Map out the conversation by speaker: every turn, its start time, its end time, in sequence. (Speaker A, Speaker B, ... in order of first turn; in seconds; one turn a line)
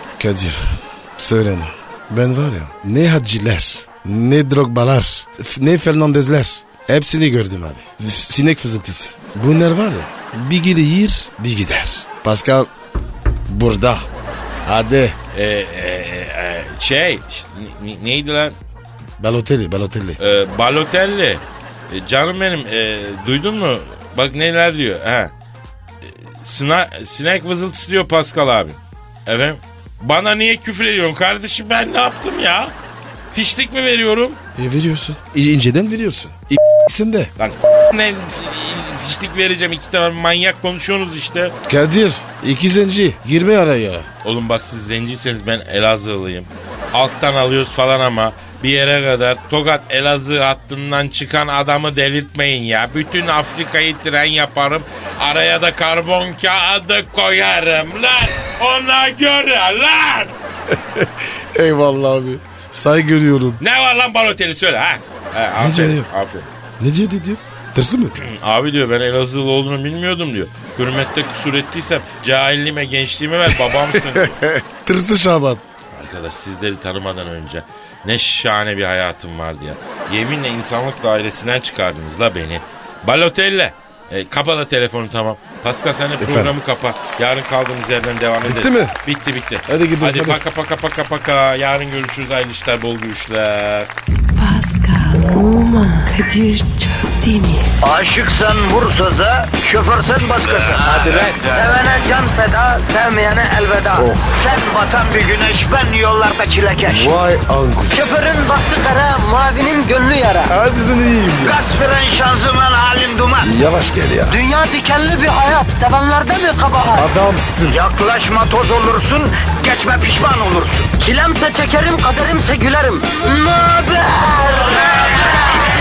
Speaker A: 0.2-12.7
Speaker A: 13.5-14.1
Speaker A: 14.6-15.2
Speaker B: 15.3-18.6
Speaker A: 19.2-20.2
Speaker B: 20.2-25.3
Speaker B: 26.0-32.7
Speaker B: 33.3-34.4
Speaker A: 34.5-37.3
Speaker B: 37.4-41.5
Speaker A: 41.7-44.1
Speaker B: 44.2-60.3
Speaker A: 60.7-63.6
Speaker B: 63.6-66.5
Speaker A: 65.6-66.1
Speaker A: 66.8-68.2
Speaker B: 68.2-74.4
Speaker A: 73.5-75.6
Speaker B: 75.9-93.9
Speaker A: 86.2-86.5
Speaker A: 88.4-89.0
Speaker A: 89.7-90.4
Speaker C: 94.3-97.7
Speaker D: 97.8-107.1
Speaker B: 100.5-101.6
Speaker A: 103.9-104.3
Speaker A: 106.8-108.2
Speaker D: 107.9-110.5
Speaker A: 110.5-111.6
Speaker D: 111.4-113.5
Speaker A: 113.4-114.4
Speaker D: 114.3-117.1
Speaker A: 116.9-117.8
Speaker D: 117.7-125.5